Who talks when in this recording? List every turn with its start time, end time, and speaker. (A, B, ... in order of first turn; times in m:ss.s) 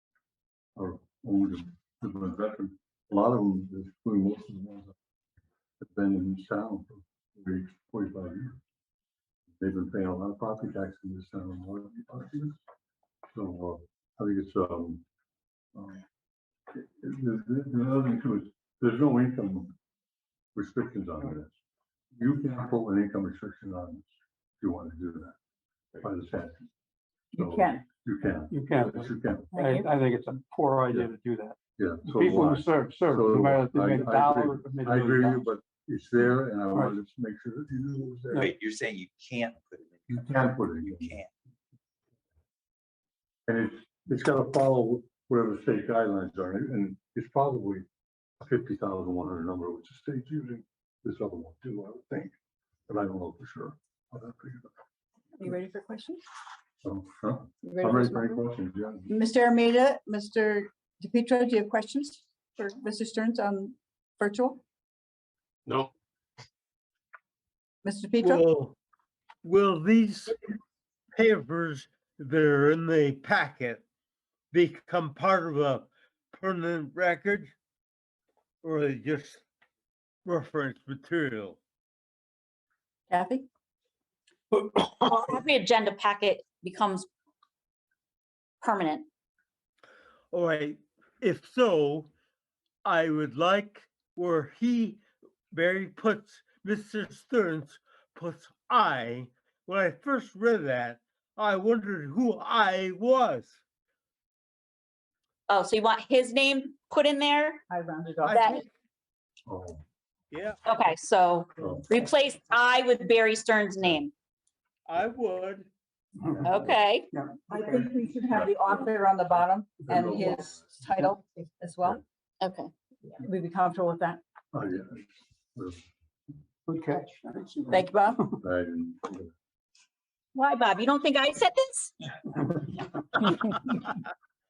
0:00.8-0:05.0 A
0:05.8-0:08.6 A
0:09.6-0:12.6 A
0:13.3-0:15.0 A
0:15.8-0:16.0 A
0:16.7-0:19.8 A
0:20.6-0:21.5 A
0:22.2-0:25.4 A
0:26.0-0:26.7 A
0:27.3-0:27.8 B
0:27.4-0:29.6 A
0:28.5-0:35.4 C
0:29.6-0:29.9 B
0:31.8-0:38.4 A
0:38.4-0:41.3 D
0:40.1-0:41.2 A
0:43.5-0:47.8 A
0:48.4-0:52.3 A
0:52.9-0:54.7 A
0:55.4-0:56.2 B
0:56.8-0:59.1 A
0:57.6-0:58.4 B
0:59.1-1:04.6 B
1:07.8-1:08.4 B
1:08.2-1:08.8 E
1:09.4-1:10.5 E
1:11.2-1:13.8 E
1:14.5-1:17.5 E
1:18.6-1:19.4 E
1:20.2-1:21.6 E
1:23.1-1:23.5 B
1:24.7-1:27.1 F
1:28.6-1:29.1 F
1:30.3-1:32.1 E
1:32.8-1:35.0 E
1:35.5-1:43.6 E
1:45.5-1:47.6 F
1:47.7-1:48.6 B
1:48.3-1:48.6 E
1:48.3-1:48.6 F
1:49.5-1:49.8 A
1:50.3-1:50.6 E
1:50.6-1:54.1 F
1:51.6-1:51.9 A
1:54.9-1:55.7 E
1:56.4-1:56.8 A
1:56.4-1:57.1 F
1:57.1-1:57.4 C
1:57.5-2:02.0 B
1:58.3-1:58.9 A
1:59.9-2:00.6 A
2:02.4-2:02.7 F
2:03.2-2:04.2 B
2:04.5-2:05.8 A
2:06.7-2:07.9 C
2:07.7-2:08.3 B
2:08.4-2:09.3 A
2:10.4-2:12.1 F